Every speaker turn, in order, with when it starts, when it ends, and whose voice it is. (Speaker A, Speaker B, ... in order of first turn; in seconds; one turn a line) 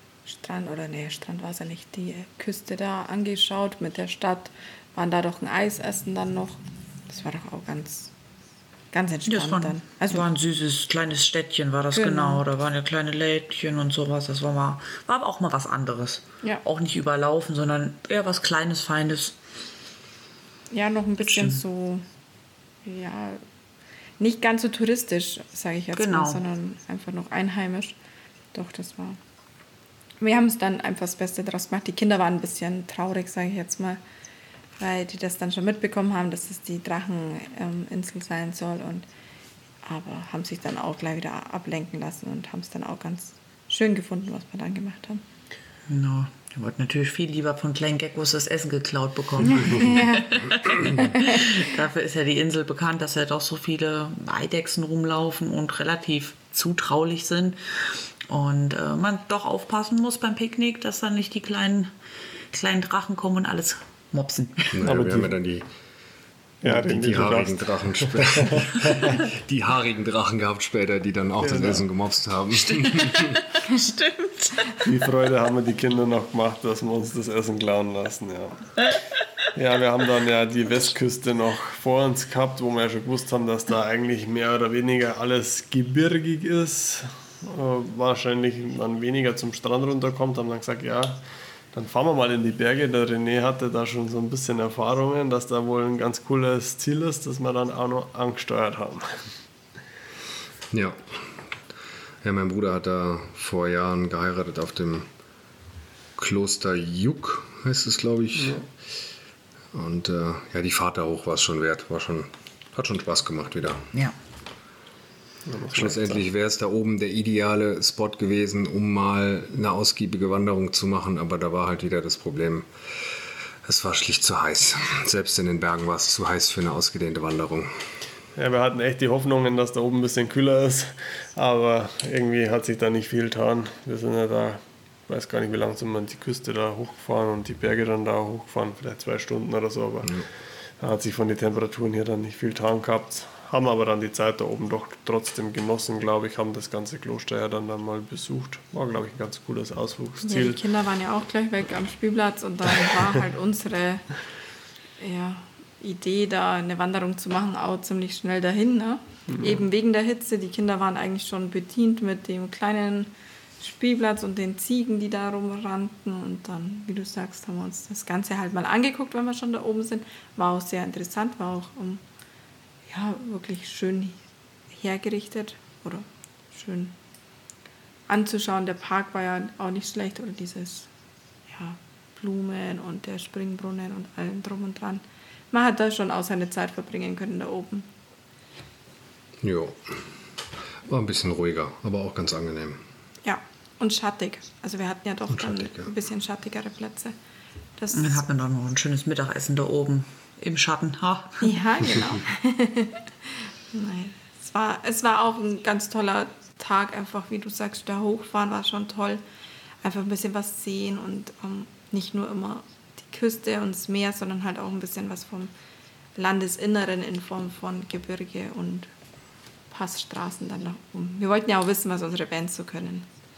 Speaker A: 0.2-8.1
Speaker A: 8.9-10.2
Speaker B: 9.2-19.4
Speaker A: 11.9-12.4
Speaker A: 20.7-22.1
Speaker B: 21.3-21.6
Speaker A: 22.8-23.4
Speaker A: 24.2-27.9
Speaker B: 25.9-26.4
Speaker A: 28.5-29.2
Speaker A: 30.2-34.0
Speaker A: 34.8-39.0
Speaker A: 39.8-45.2
Speaker B: 45.9-61.9
Speaker A: 49.4-51.0
Speaker B: 62.5-64.8
Speaker C: 64.7-65.7
Speaker D: 64.8-65.3
Speaker D: 66.6-69.2
Speaker C: 66.6-73.4
Speaker D: 71.4-71.8
Speaker B: 73.0-74.7
Speaker D: 74.8-78.9
Speaker D: 79.5-91.2
Speaker D: 91.7-99.2
Speaker C: 100.7-101.4
Speaker C: 102.2-105.1
Speaker C: 106.2-108.7
Speaker D: 108.4-108.6
Speaker C: 109.7-113.9
Speaker D: 115.5-116.2
Speaker C: 115.7-122.7
Speaker C: 123.6-127.7
Speaker D: 128.3-140.2
Speaker D: 140.8-150.6
Speaker A: 150.2-154.1
Speaker A: 155.0-172.0
Speaker D: 159.3-159.6
Speaker A: 172.9-174.2
Speaker A: 174.7-176.9
Speaker A: 178.1-180.9
Speaker A: 181.5-187.9
Speaker C: 189.4-190.0
Speaker C: 190.9-192.8
Speaker A: 193.2-197.1
Speaker C: 195.3-195.9
Speaker A: 197.8-198.2
Speaker B: 197.9-201.5
Speaker A: 201.4-203.1
Speaker A: 203.7-209.2
Speaker A: 209.8-215.5
Speaker A: 216.1-218.9
Speaker A: 219.7-223.1